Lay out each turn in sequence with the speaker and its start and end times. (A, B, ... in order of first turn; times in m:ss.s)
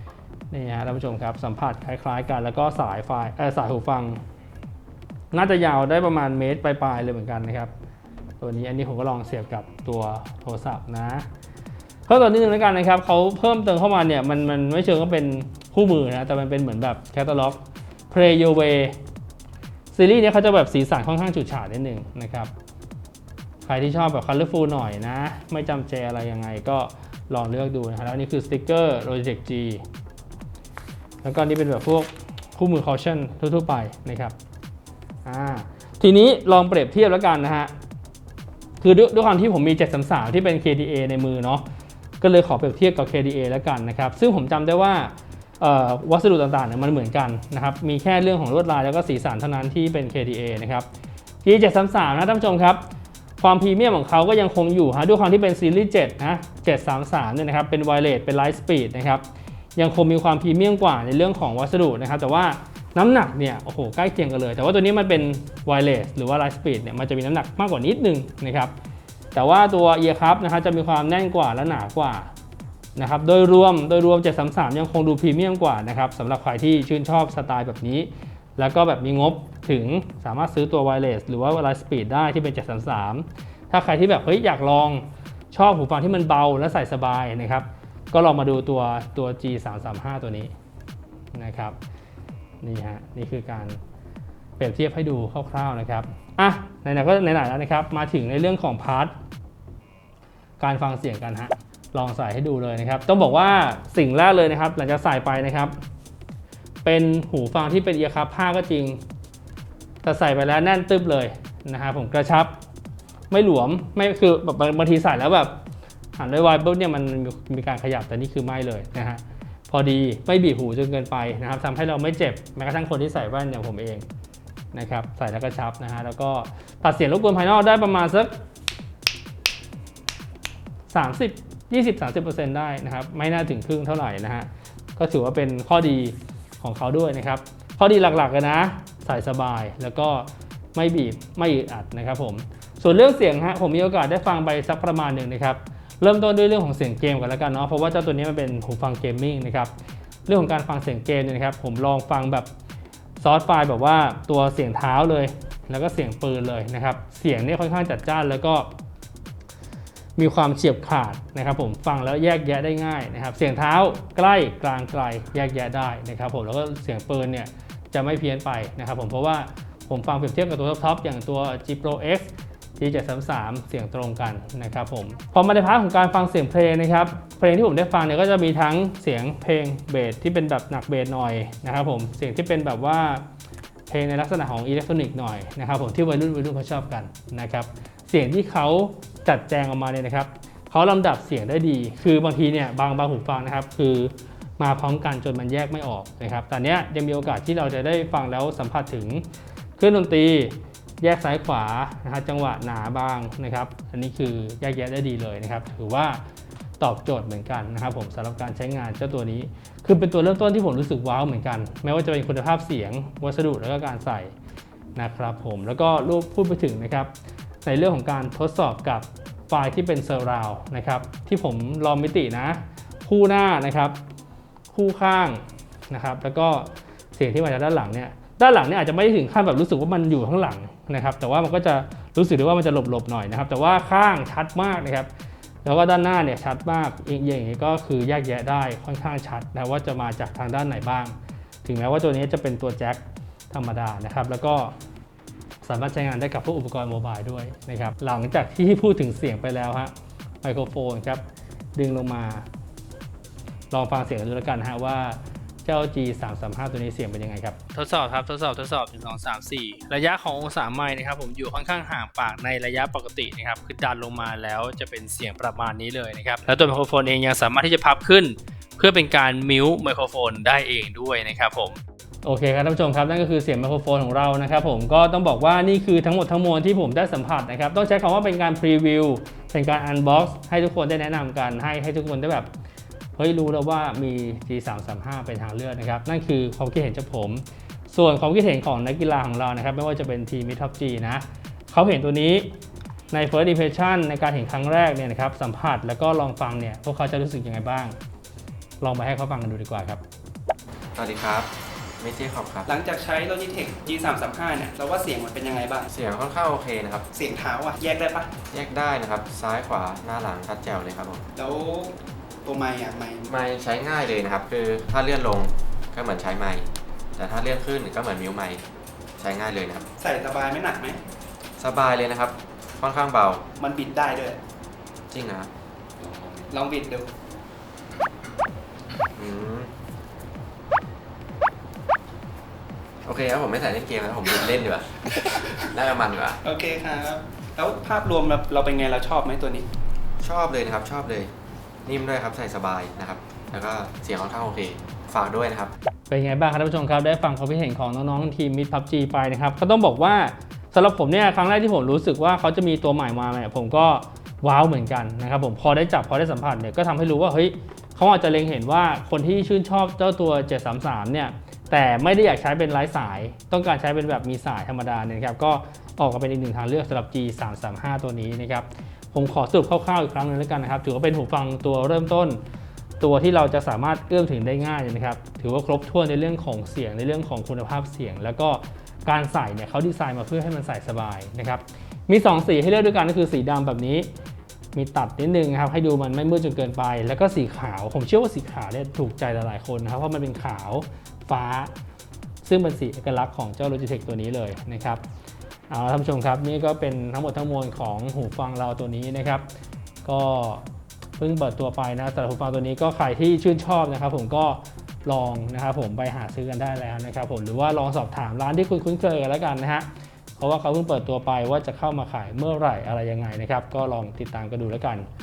0:00.5-0:04.2 A
0:05.3-0:07.7 A
0:08.4-0:11.3 A
0:12.1-0:19.0 A
0:19.9-0:22.5 A
0:23.6-0:29.8 A
0:31.2-0:34.4 A
0:35.2-0:37.7 A
0:38.8-0:41.6 A
0:42.2-0:50.9 A
0:51.4-0:52.8 A
0:53.4-0:59.2 A
0:59.8-1:08.7 A
1:09.3-1:12.3 A
1:13.0-1:30.5 A
1:31.3-1:31.8 A
1:32.6-1:33.8 A
1:34.6-1:39.1 A
1:40.6-1:45.7 A
1:46.8-1:49.0 A
1:50.0-1:52.5 A
1:53.3-1:55.6 A
1:56.2-2:04.0 A
2:04.7-2:08.3 A
2:10.9-2:29.7 A
2:30.3-2:32.5 A
2:33.2-2:38.7 A
2:40.2-3:03.2 A
3:03.9-3:19.2 A
3:19.8-3:26.2 A
3:26.8-3:34.3 A
3:35.0-3:37.1 A
3:37.6-3:44.0 A
3:44.7-3:55.1 A
3:55.6-4:04.7 A
4:05.6-4:11.2 A
4:11.8-4:12.5 A
4:13.7-4:42.5 A
4:43.2-4:52.5 A
4:53.1-4:58.0 A
4:58.8-5:00.0 A
5:01.0-5:01.5 B
5:02.0-5:02.7 B
5:02.7-5:05.9 C
5:05.9-5:07.1 B
5:07.1-5:08.3 C
5:08.5-5:11.3 B
5:11.4-5:13.3 C
5:13.3-5:18.6 B
5:19.2-5:19.8 B
5:20.0-5:21.0 C
5:21.6-5:23.4 B
5:23.6-5:24.4 C
5:25.1-5:25.5 B
5:26.5-5:27.1 C
5:29.2-5:29.7 B
5:33.0-5:35.0 B
5:35.6-5:36.4 B
5:36.4-5:39.7 C
5:40.2-5:41.3 B
5:41.9-5:45.7 B
5:46.1-6:12.4 A
6:13.0-6:24.1 A
6:24.7-6:31.7 A
6:32.4-6:35.0 A
6:35.7-6:39.5 A
6:40.0-6:40.6 A
6:41.2-6:49.9 A
6:50.4-6:55.1 A